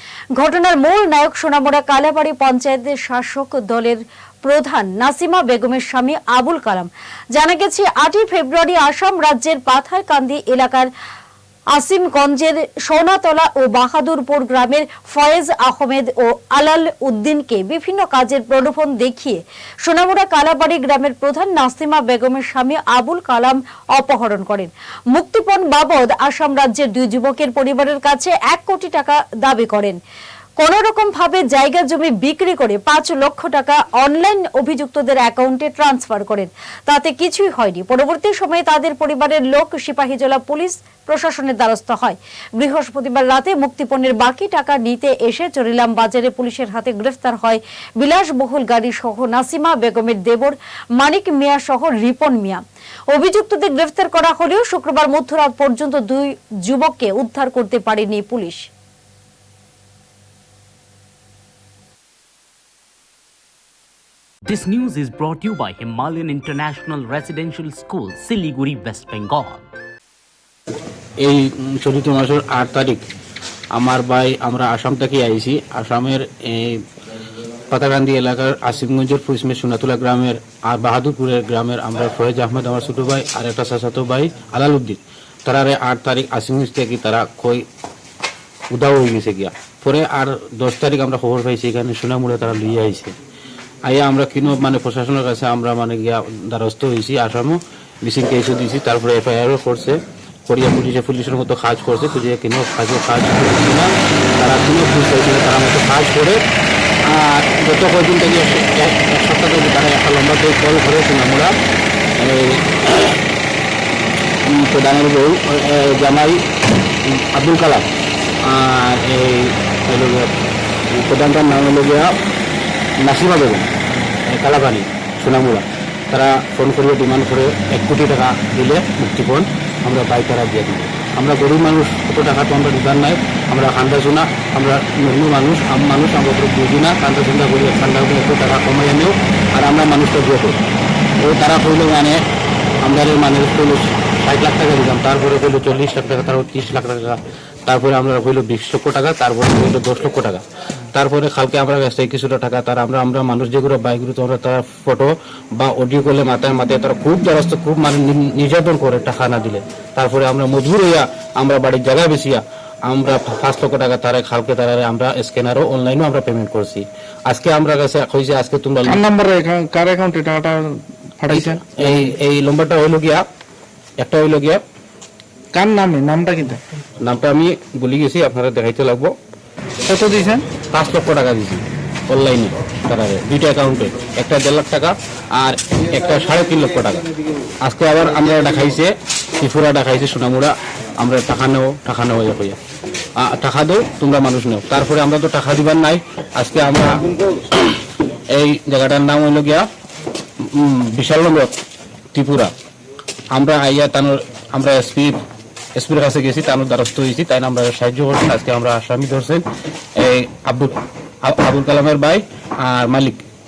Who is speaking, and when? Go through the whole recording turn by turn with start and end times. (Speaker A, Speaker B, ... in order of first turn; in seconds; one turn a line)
Speaker A: 0.3-10.9
Speaker A: 11.7-30.0
Speaker A: 30.6-58.7
Speaker B: 64.5-69.7
Speaker C: 71.2-73.0
Speaker C: 73.7-76.8
Speaker C: 77.7-87.7
Speaker C: 88.7-93.1
Speaker C: 93.9-106.4
Speaker C: 107.1-111.5
Speaker C: 112.2-113.2
Speaker C: 114.5-116.4
Speaker C: 117.0-117.9
Speaker C: 118.4-120.3
Speaker C: 120.9-122.1
Speaker C: 123.0-140.6
Speaker C: 141.2-142.2
Speaker C: 142.8-150.4
Speaker C: 150.9-169.0
Speaker D: 168.9-171.8
Speaker C: 171.3-173.2
Speaker C: 174.0-174.6
Speaker D: 175.5-176.6
Speaker C: 177.0-179.1
Speaker D: 179.9-180.5
Speaker C: 180.6-187.1
Speaker C: 187.6-192.6
Speaker C: 193.2-197.1
Speaker C: 198.3-199.7
Speaker C: 200.4-201.6
Speaker C: 202.1-202.5
Speaker C: 203.3-205.2
Speaker C: 205.8-209.4
Speaker C: 210.0-213.2